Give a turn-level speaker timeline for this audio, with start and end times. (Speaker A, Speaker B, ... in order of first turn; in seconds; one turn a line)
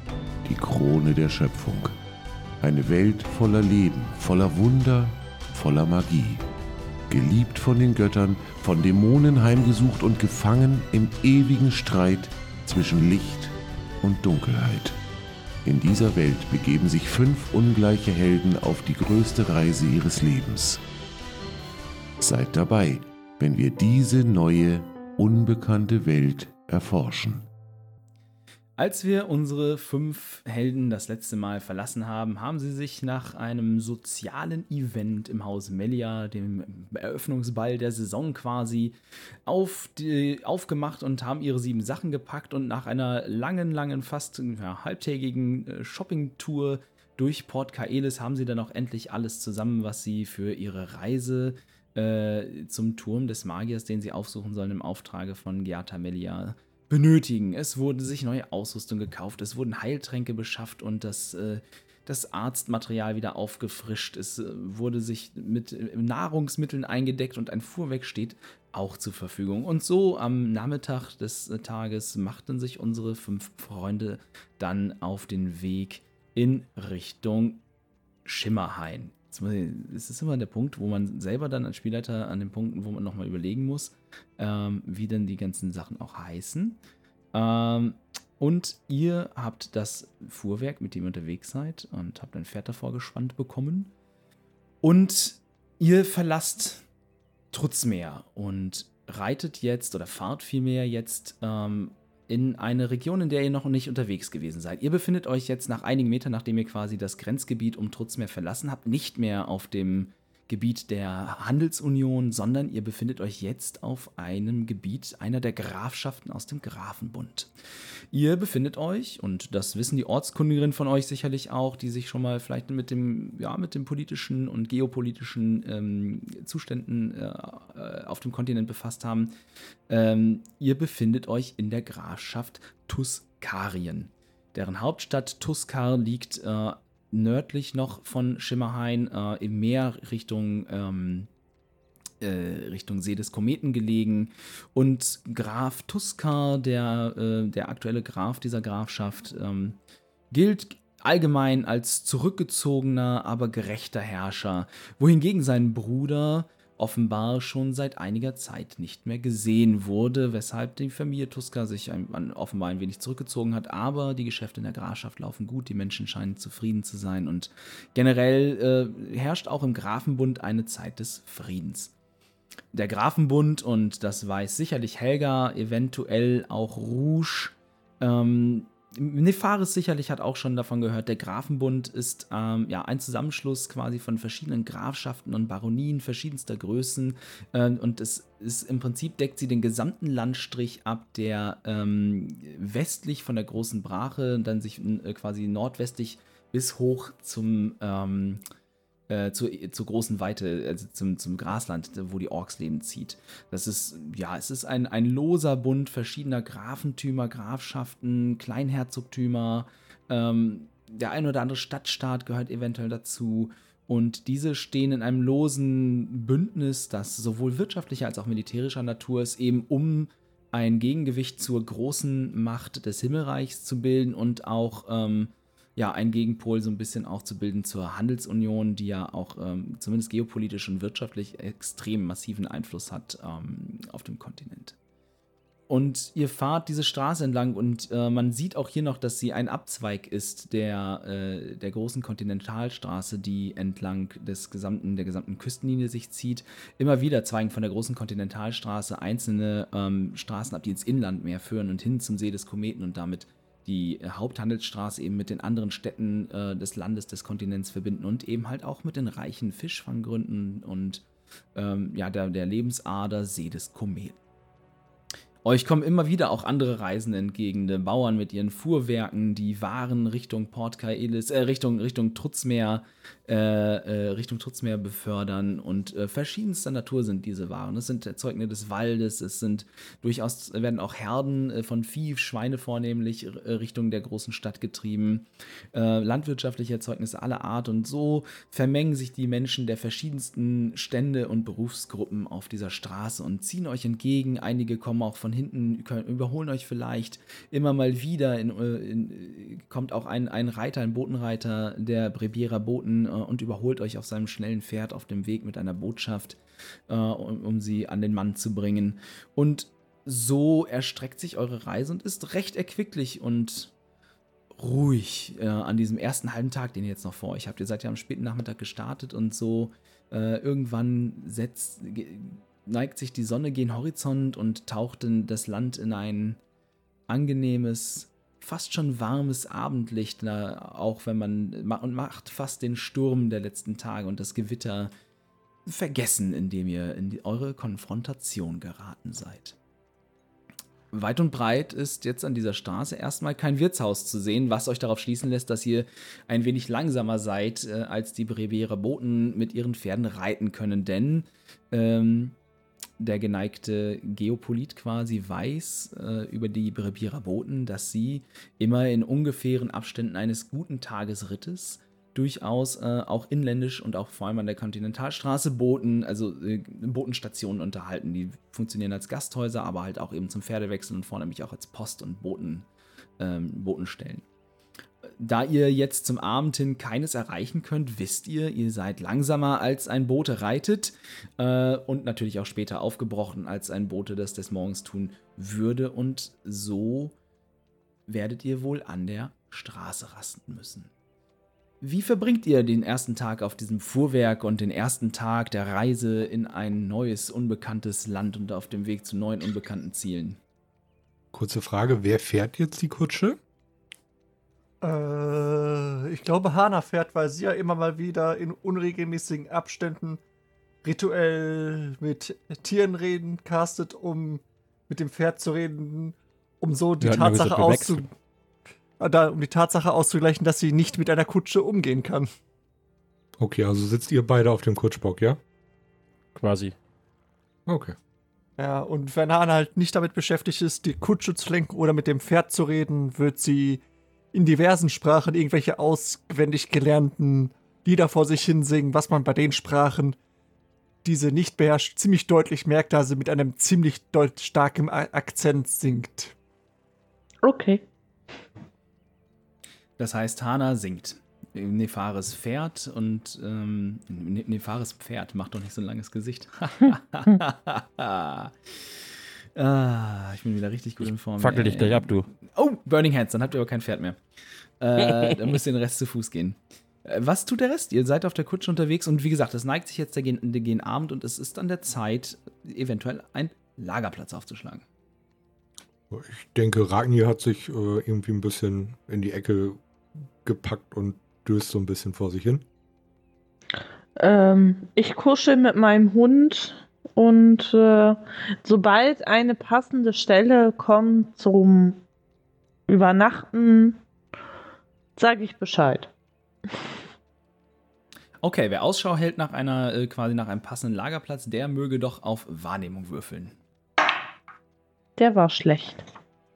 Speaker A: 0.5-2.0
Speaker A: 2.6-6.5
Speaker A: 7.1-15.0
Speaker A: 15.7-20.8
Speaker A: 22.2-27.5
Speaker B: 28.8-77.6
Speaker B: 78.3-86.8
Speaker B: 87.3-93.9
Speaker B: 94.8-96.8
Speaker B: 97.5-117.5
Speaker B: 118.1-129.3
Speaker B: 129.9-141.3
Speaker B: 142.2-149.8
Speaker B: 150.3-171.9
Speaker B: 172.7-198.4
Speaker B: 199.1-234.8
Speaker B: 235.7-264.2
Speaker B: 265.4-313.7
Speaker B: 314.6-326.4
Speaker B: 327.1-334.9
Speaker B: 335.7-339.6
Speaker B: 340.9-352.4
Speaker B: 353.0-372.7
Speaker B: 373.2-374.2
Speaker B: 375.1-387.2
Speaker B: 388.1-390.9
Speaker B: 391.8-400.4
Speaker C: 401.3-403.4
Speaker D: 404.8-410.2
Speaker D: 410.8-418.1
Speaker E: 417.0-418.1
Speaker D: 419.0-422.3
Speaker C: 423.4-425.4
Speaker E: 426.4-426.8
Speaker C: 427.7-427.9
Speaker D: 428.6-440.2
Speaker D: 441.0-446.3
Speaker F: 447.4-447.9
Speaker B: 450.0-459.0
Speaker B: 459.6-464.2
Speaker E: 461.0-462.3
Speaker B: 464.8-474.9
Speaker C: 476.1-479.8
Speaker C: 480.4-482.6
Speaker F: 484.2-492.0
Speaker F: 492.9-494.0
Speaker F: 495.2-496.1
Speaker B: 498.4-503.6
Speaker F: 505.2-506.0